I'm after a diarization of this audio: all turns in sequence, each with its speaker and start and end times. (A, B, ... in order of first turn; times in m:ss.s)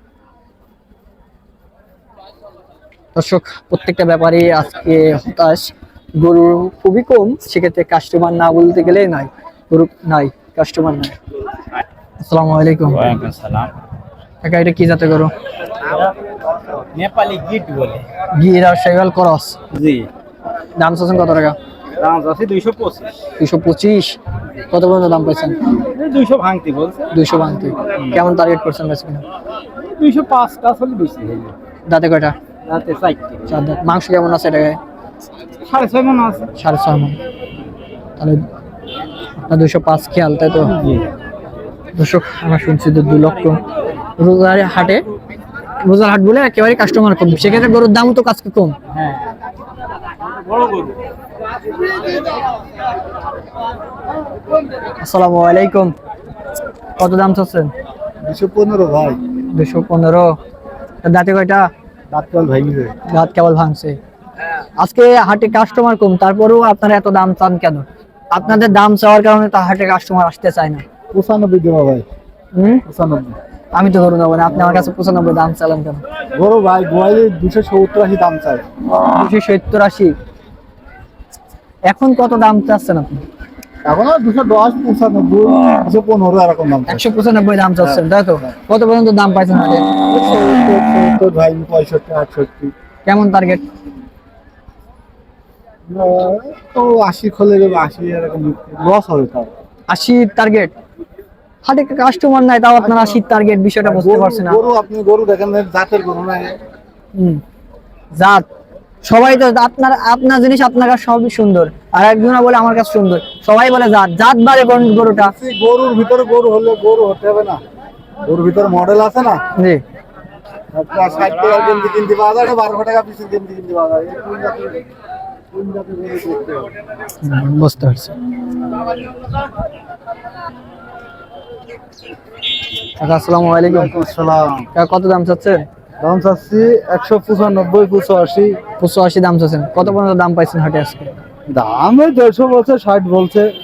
0:03.1-0:11.1 A
0:12.2-0:13.1 A
0:13.0-0:13.7 B
0:14.4-0:15.3 A
0:15.8-0:16.1 B
0:16.9-0:18.0 B
0:18.4-0:19.6 A
0:19.7-0:20.1 B
0:20.8-0:21.6 A
0:22.0-0:23.1 B
0:23.4-0:24.2 A
0:24.7-0:25.6 A
0:25.9-0:27.1 B
0:27.1-0:29.2 A
0:29.9-0:31.5 B
0:31.9-0:32.4 A
0:32.6-0:33.4 B
0:33.5-0:34.8 A
0:35.7-0:36.5 B
0:36.6-0:37.2 A
0:38.2-0:38.4 A
0:39.4-0:40.7 A
0:40.7-0:41.0 B
0:41.9-0:43.6 A
0:44.2-0:45.0 A
0:45.8-0:48.8 A
0:48.9-0:49.2 B
0:50.2-0:51.0 B
0:55.0-0:55.9 A
0:57.0-0:57.7 A
0:58.2-0:59.2 C
0:59.5-1:00.4 A
1:01.0-1:01.7 A
1:02.1-1:03.0 C
1:03.1-1:04.0 A
1:04.8-1:10.8 A
1:11.1-1:12.0 C
1:12.5-1:12.8 A
1:12.9-1:13.4 C
1:13.7-1:16.0 A
1:14.5-1:14.9 C
1:16.3-1:18.6 C
1:19.0-1:20.1 A
1:21.8-1:23.2 A
1:23.8-1:27.1 C
1:26.9-1:29.9 A
1:27.8-1:28.5 C
1:30.1-1:32.7 C
1:33.0-1:33.6 A
1:35.9-1:39.5 C
1:39.9-1:40.7 A
1:41.6-1:44.6 A
1:42.8-1:43.1 C
1:43.8-1:46.6 C
1:47.1-1:47.4 A
1:48.1-1:48.4 A
1:49.0-1:55.3 A
1:55.2-1:57.6 C
1:58.2-1:59.4 C
1:59.6-1:59.8 A
2:00.7-2:04.8 C
2:05.5-2:06.7 C
2:07.2-2:08.2 A
2:13.0-2:13.9 A
2:13.6-2:14.7 C
2:14.7-2:15.6 A
2:16.0-2:18.6 C
2:18.8-2:21.1 A
2:21.5-2:23.5 C